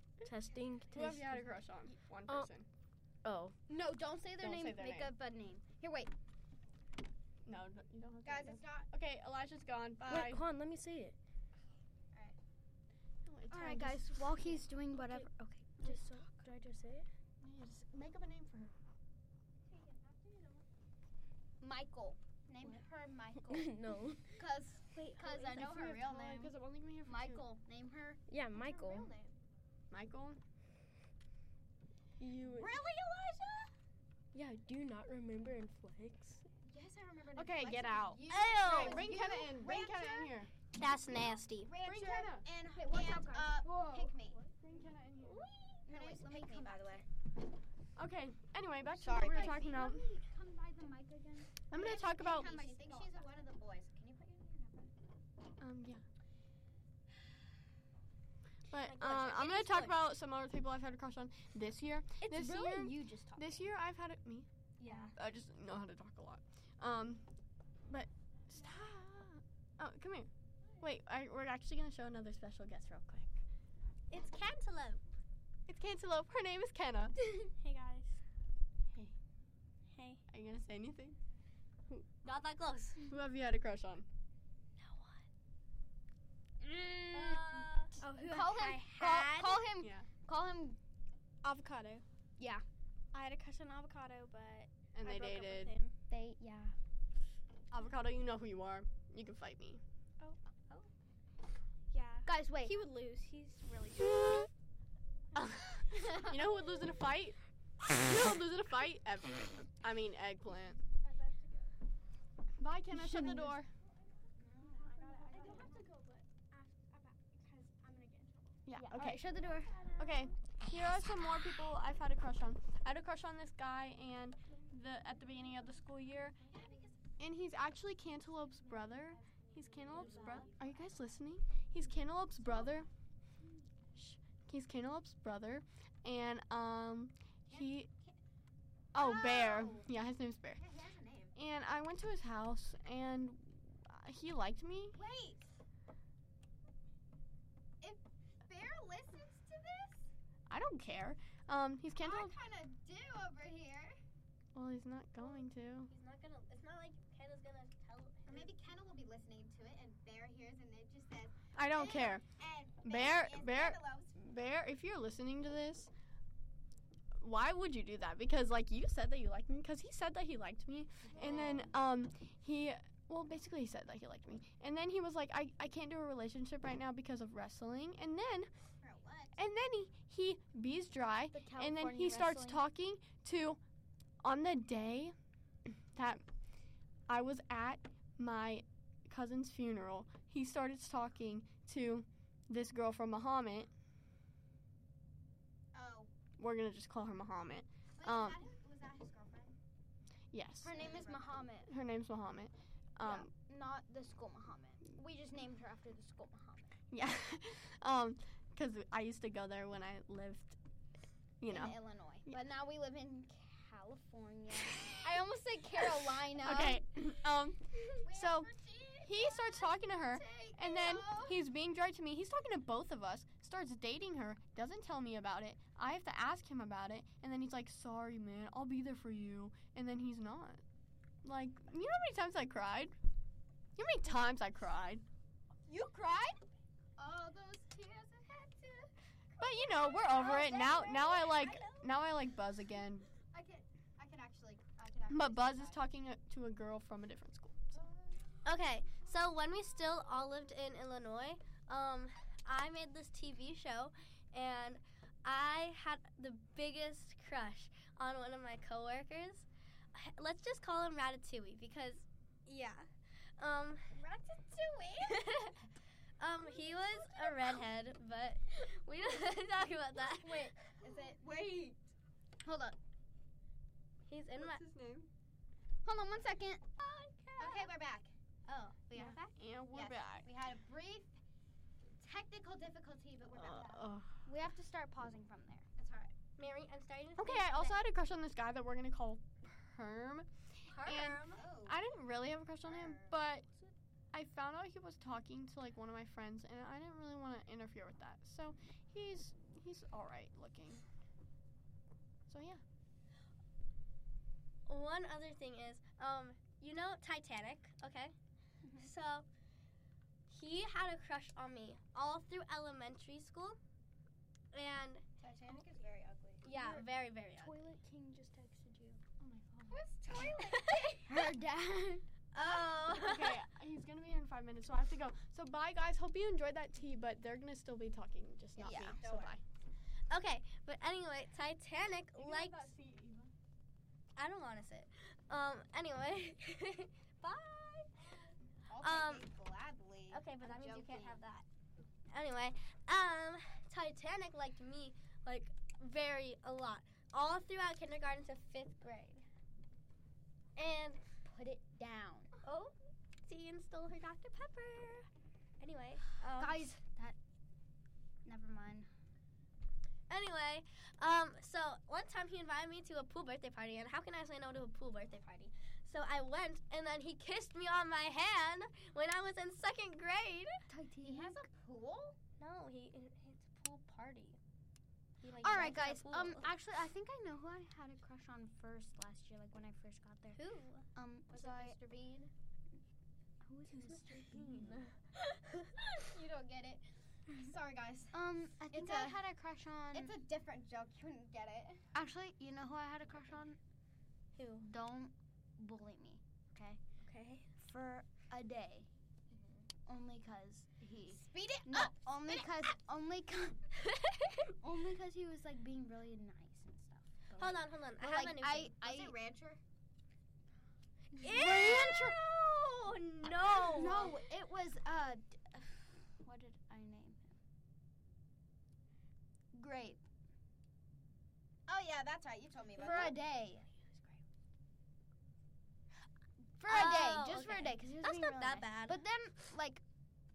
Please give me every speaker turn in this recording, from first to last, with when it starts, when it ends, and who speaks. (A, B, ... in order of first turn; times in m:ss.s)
0:00.2-0:01.4 A
0:00.9-0:02.7 B
0:03.2-0:03.6 A
0:03.7-0:05.7 C
0:04.4-0:05.1 B
0:05.8-0:06.1 D
0:07.5-0:10.4 B
0:08.2-0:08.9 D
0:10.0-0:11.2 A
0:13.2-0:14.7 B
0:13.5-0:16.5 C
0:15.8-0:17.1 A
0:17.4-0:18.7 B
0:21.6-0:23.8 C
0:23.5-0:24.3 A
0:24.4-0:26.5 D
0:24.4-0:26.5 C
0:25.7-0:27.4 B
0:27.1-0:29.1 C
0:28.3-0:29.2 A
0:28.8-0:29.3 D
0:29.9-0:30.4 B
0:32.2-0:32.8 B
0:32.6-0:33.7 D
0:34.3-0:36.4 A
0:36.6-0:40.4 D
0:37.4-0:40.5 B
0:38.3-0:39.1 E
0:40.7-0:41.7 E
0:41.6-0:44.4 D
0:41.8-0:42.5 B
0:42.8-0:43.7 C
0:43.6-0:44.5 A
0:44.5-0:45.5 B
0:45.8-0:47.0 C
0:45.9-0:47.1 D
0:48.0-0:50.1 B
0:48.9-0:49.8 D
0:49.2-0:53.3 C
0:51.7-0:52.6 B
0:51.7-0:54.9 D
0:55.6-0:56.0 B
0:58.7-1:04.5 B
0:58.7-1:00.0 E
1:02.2-1:03.7 C
1:04.8-1:05.1 C
1:04.8-1:05.1 E
1:05.2-1:07.3 B
1:07.9-1:13.4 B
1:14.1-1:15.0 E
1:15.7-1:17.2 B
1:17.6-1:18.2 E
1:20.3-1:21.2 B
1:22.2-1:23.0 E
1:23.1-1:24.1 B
1:24.8-1:25.2 E
1:26.6-1:30.8 C
1:27.1-1:29.6 E
1:28.0-1:28.8 A
1:29.8-1:30.1 B
1:31.4-1:32.0 E
1:32.4-1:32.6 C
1:33.2-1:33.7 E
1:33.3-1:35.8 A
1:34.9-1:35.8 B
1:36.1-1:36.8 C
1:37.7-1:39.8 B
1:42.0-1:44.1 E
1:42.0-1:42.9 A
1:42.3-1:42.8 C
1:45.4-1:47.4 B
1:47.9-1:50.8 B
1:51.0-1:51.7 A
1:52.6-1:53.7 B
1:52.9-1:53.6 C
1:54.6-1:55.8 C
1:54.7-1:58.6 A
1:58.7-2:06.5 B
1:58.7-1:59.9 C
1:59.4-2:00.3 A
2:06.6-2:06.8 D
2:07.2-2:12.9 B
2:09.9-2:10.5 A
2:09.9-2:10.6 D
2:14.0-2:17.9 B
2:17.5-2:18.2 D
2:18.9-2:20.6 B
2:19.0-2:19.9 D
2:20.6-2:21.3 D
2:21.4-2:25.0 B
2:24.9-2:25.5 D
2:27.8-2:30.1 D
2:30.5-2:32.4 B
2:32.0-2:34.0 D
2:34.5-2:35.9 B
2:35.9-2:38.5 E
2:38.3-2:44.1 D
2:41.6-2:42.2 B
2:42.8-2:45.9 B
2:47.2-2:58.5 B
2:51.1-2:51.7 D
2:58.8-2:59.4 D
2:59.4-3:03.6 B
3:01.3-3:02.6 C
3:04.2-3:05.2 B
3:05.7-3:06.2 B
3:07.1-3:13.7 B
3:15.7-3:16.1 D
3:16.4-3:18.4 B
3:18.0-3:19.6 D
3:20.3-3:20.8 B
3:20.6-3:21.7 C
3:20.7-3:21.4 D
3:21.7-3:23.3 B
3:23.0-3:26.8 C
3:26.9-3:30.6 B
3:31.4-3:31.8 B
3:31.5-3:36.8 C
3:36.3-3:38.5 B
3:38.0-3:41.4 D
3:39.0-3:50.6 B
3:51.2-3:53.0 B
3:53.8-3:55.0 B
3:55.7-3:56.4 D
3:57.0-4:01.6 D
3:59.4-4:03.1 B
4:00.2-4:00.9 E
4:03.3-4:05.8 D
4:05.1-4:07.6 B
4:07.7-4:08.5 D
4:08.4-4:23.8 E
4:23.9-4:25.5 D
4:25.0-4:25.6 E
4:26.2-4:30.6 E
4:26.4-4:27.6 D
4:30.2-4:30.5 C
4:30.7-4:31.9 D
4:32.4-4:32.7 C
4:34.1-4:34.6 E
4:34.4-4:35.1 B
4:35.8-4:36.7 C
4:36.8-4:37.7 E
4:37.4-4:38.1 D
4:38.5-4:39.3 E
4:38.9-4:41.2 D
4:39.3-4:40.3 B
4:42.0-4:43.9 D
4:43.4-4:44.1 B
4:44.3-4:45.7 C
4:45.8-4:46.1 D
4:46.4-4:47.8 E
4:47.2-4:53.5 B
4:50.7-4:51.4 E
4:51.3-4:51.8 D
4:52.6-4:53.2 D
4:54.1-5:00.8 B
5:02.3-5:02.6 B
5:04.7-5:08.1 E
5:08.6-5:08.9 C
5:08.8-5:09.3 E
5:10.3-5:13.6 E
5:14.5-5:15.0 E
5:15.2-5:16.5 D
5:16.4-5:17.6 E
5:16.5-5:19.0 C
5:19.2-5:19.8 B
5:19.7-5:20.9 D
5:20.1-5:21.3 E
5:21.1-5:22.0 C
5:22.3-5:23.4 E
5:22.4-5:22.8 D
5:22.9-5:29.4 B
5:28.6-5:29.4 D
5:28.7-5:29.0 C
5:30.1-5:32.7 E
5:32.2-5:33.3 B
5:34.2-5:37.9 E
5:38.7-5:41.2 D
5:38.8-5:39.3 E
5:40.1-5:41.4 E
5:42.1-5:49.3 E
5:50.6-5:51.0 E
5:51.2-5:52.3 C
5:52.4-5:55.1 E
5:55.6-5:56.7 E
5:56.4-5:57.2 C
5:58.2-5:58.9 C
6:00.1-6:10.6 E
6:10.7-6:11.4 C
6:11.0-6:12.2 D
6:12.4-6:14.4 E
6:15.2-6:16.5 E
6:15.4-6:20.4 C
6:20.3-6:20.8 E
6:20.9-6:21.8 C
6:21.3-6:22.3 D
6:23.4-6:24.8 C
6:23.7-6:25.9 E
6:26.0-6:29.4 D
6:28.1-6:30.1 C
6:29.9-6:31.8 D
6:31.9-6:33.6 C
6:34.4-6:34.7 E
6:34.6-6:36.8 C
6:37.0-6:37.5 E
6:37.6-6:38.9 C
6:39.3-6:39.7 D
6:39.9-6:43.6 C
6:41.1-6:42.1 D
6:43.8-6:44.5 E
6:44.6-6:49.1 C
6:47.4-6:48.8 E
6:48.7-6:49.6 D
6:51.2-6:54.2 E
6:51.2-6:52.2 C
6:53.6-6:57.4 C
6:53.8-6:54.1 D
6:59.5-7:00.0 C
7:01.7-7:03.2 D
7:02.8-7:04.2 C
7:06.6-7:09.8 C
7:06.7-7:09.0 E